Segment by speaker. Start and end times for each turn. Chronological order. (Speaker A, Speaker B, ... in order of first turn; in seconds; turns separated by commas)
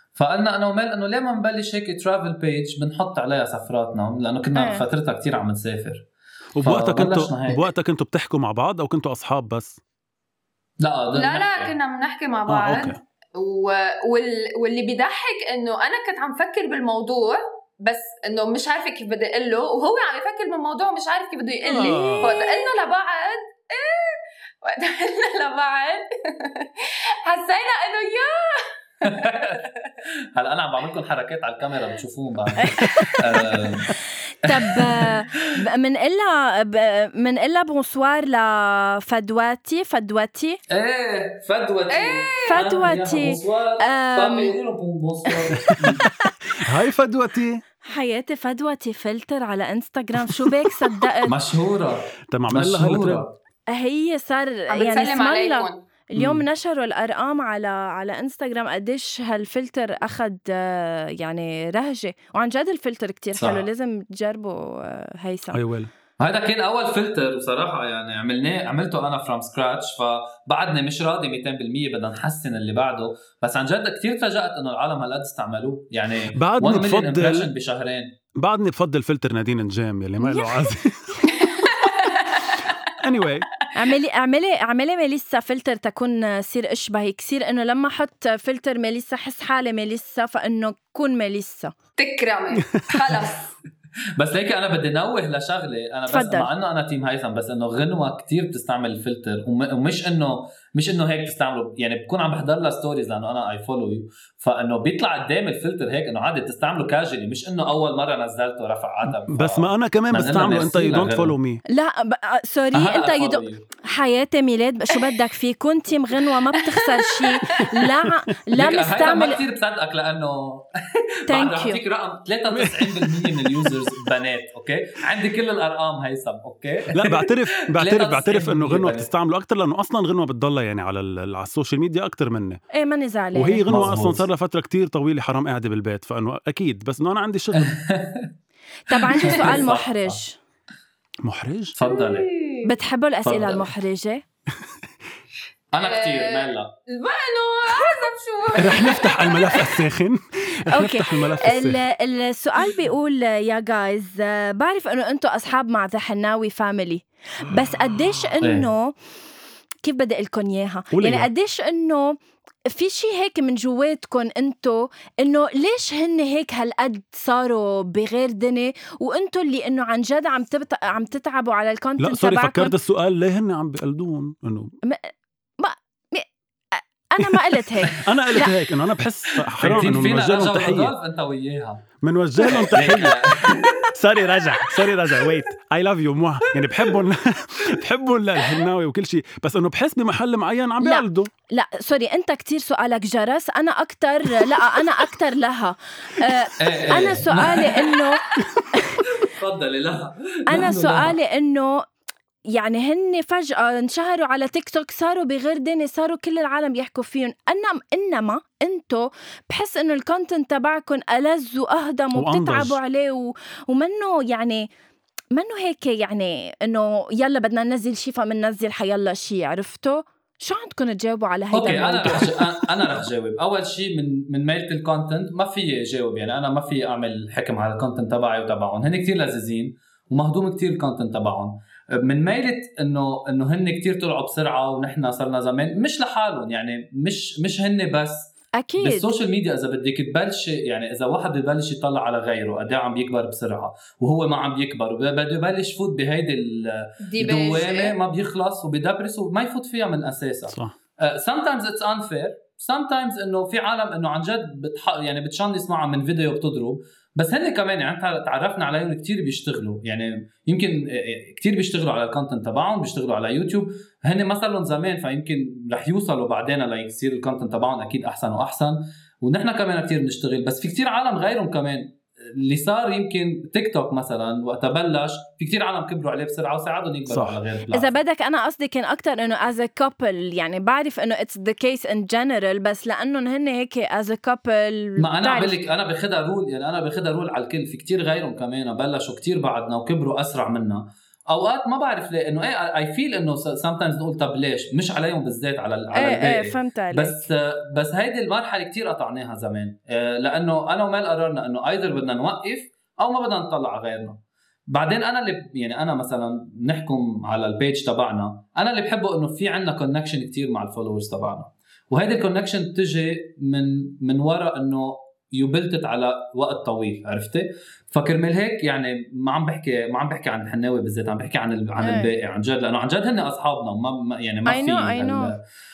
Speaker A: 0.1-6.0, Speaker B: 4.5-4.8, Speaker C: 6.6-9.8, Speaker A: 6.6-7.7, Speaker A: 10.8-11.7, Speaker D: 11.1-29.7, Speaker C: 12.5-13.0, Speaker C: 21.7-22.4, Speaker A: 29.0-29.6, Speaker A: 30.3-35.6, Speaker B: 32.6-40.6, Speaker A: 40.7-46.1, Speaker D: 41.9-42.7, Speaker B: 42.4-44.6, Speaker C: 45.7-46.0, Speaker C: 46.5-47.6, Speaker B: 47.8-51.4, Speaker C: 50.4-51.0, Speaker A: 51.2-53.4, Speaker C: 52.3-53.2, Speaker B: 53.7-65.6, Speaker D: 54.7-55.8, Speaker C: 56.2-56.4, Speaker A: 63.4-63.6, Speaker C: 65.5-65.9, Speaker A: 66.2-78.1, Speaker C: 76.3-77.5, Speaker C: 78.4-81.8, Speaker B: 80.2-80.7, Speaker D: 81.3-82.7, Speaker C: 83.0-83.5, Speaker B: 83.7-91.7, Speaker D: 92.0-93.5, Speaker C: 92.8-93.2, Speaker A: 94.2-111.3, Speaker B: 96.1-96.5, Speaker C: 109.0-111.6, Speaker B: 111.7-119.4, Speaker A: 112.7-113.7, Speaker D: 116.6-117.7, Speaker A: 118.5-129.1, Speaker B: 121.3-121.8, Speaker C: 122.5-123.8, Speaker C: 126.9-132.6, Speaker B: 132.7-133.7, Speaker C: 133.3-137.7, Speaker A: 133.7-134.2, Speaker A: 137.5-138.3, Speaker B: 138.9-140.4, Speaker A: 139.0-140.2, Speaker C: 141.2-141.8, Speaker A: 141.7-142.3, Speaker D: 141.8-142.7, Speaker B: 142.6-144.2, Speaker A: 143.2-143.7, Speaker A: 145.7-146.7, Speaker D: 145.8-149.8, Speaker C: 148.6-151.8, Speaker B: 150.7-158.9, Speaker A: 158.4-158.7, Speaker B: 159.8-162.2, Speaker C: 160.9-161.3, Speaker B: 162.7-172.7, Speaker C: 172.0-174.7, Speaker B: 174.8-178.5, Speaker C: 177.2-180.9, Speaker A: 179.5-181.9, Speaker C: 182.0-191.3, Speaker A: 182.4-183.9, Speaker B: 190.8-199.0, Speaker A: 196.6-198.0, Speaker A: 199.2-201.2, Speaker B: 200.5-201.8, Speaker B: 202.5-214.7, Speaker C: 212.1-212.8, Speaker B: 215.3-222.5, Speaker A: 221.5-277.9, Speaker B: 238.6-239.1, Speaker D: 247.1-247.9, Speaker C: 250.5-250.7, Speaker C: 277.1-277.4, Speaker B: 277.7-285.6, Speaker A: 285.0-304.2, Speaker B: 295.9-297.2, Speaker A: 304.7-325.4, Speaker B: 321.8-322.1, Speaker B: 324.4-325.3